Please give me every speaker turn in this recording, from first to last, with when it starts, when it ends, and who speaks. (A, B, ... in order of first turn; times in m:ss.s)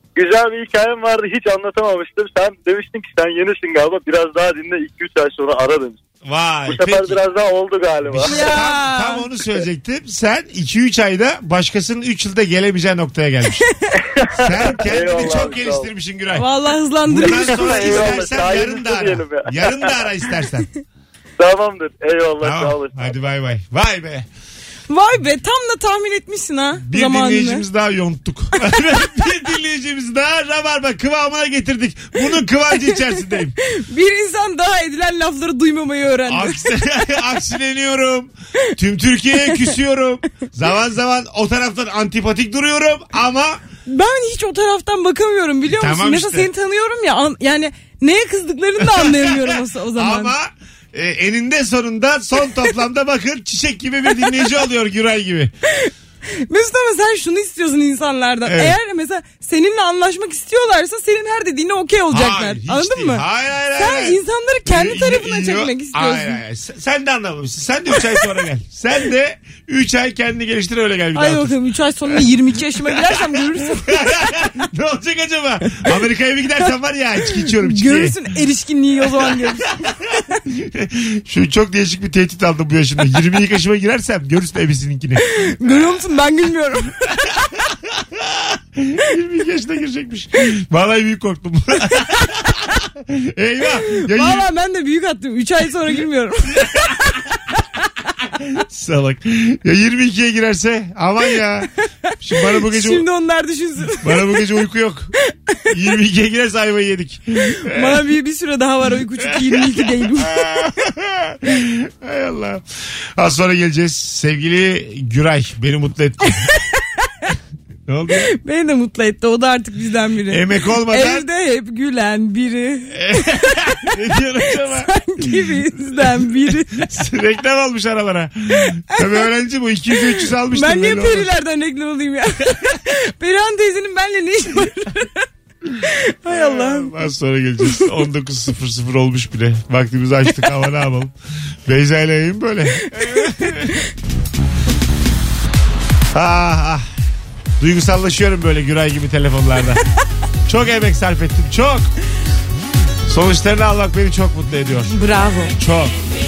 0:00.2-0:06.0 A
0:06.2-0:07.2 B
0:06.7-0:08.5 A
0:08.0-0:13.6 B
0:08.2-0:09.3 C
0:14.2-0:15.9 A
0:14.4-0:16.5 B
0:16.3-0:18.2 C
0:17.0-0:20.7 B
0:17.2-0:20.0 A
0:21.4-0:23.1 A
0:22.4-0:24.3 B
0:24.9-0:27.6 C
0:26.8-0:33.5 B
0:33.6-0:36.7 C
0:36.2-0:43.6 B
0:43.8-0:50.3 C
0:45.7-0:46.5 B
0:48.8-0:55.5 B
0:56.5-1:03.2 C
0:58.4-0:58.8 B
1:02.1-1:11.6 B
1:03.8-1:06.4 C
1:11.1-1:14.0 C
1:12.8-1:18.2 B
1:17.3-1:19.9 C
1:19.2-1:19.9 B
1:20.4-1:26.0 B
1:25.3-1:27.3 C
1:27.4-1:34.5 B
1:34.0-1:36.9 C
1:36.5-1:37.2 B
1:38.3-1:41.7 B
1:42.2-1:43.0 B
1:42.4-1:44.4 C
1:44.0-1:45.1 B
1:45.7-1:48.0 B
1:47.6-1:50.6 C
1:49.2-1:52.6 B
1:53.2-1:56.5 B
1:56.4-1:56.8 C
1:57.9-1:58.3 B
1:58.2-2:06.9 C
2:00.3-2:01.3 B
2:02.9-2:11.3 B
2:09.0-2:09.3 C
2:09.9-2:15.2 C
2:15.8-2:16.9 C
2:16.2-2:21.1 B
2:17.6-2:17.9 C
2:21.6-2:23.7 B
2:22.9-2:23.8 C
2:26.1-2:26.8 B
2:27.6-2:29.8 B
2:30.4-2:31.9 B
2:33.1-2:34.9 B
2:34.9-2:35.6 C
2:35.6-2:35.9 B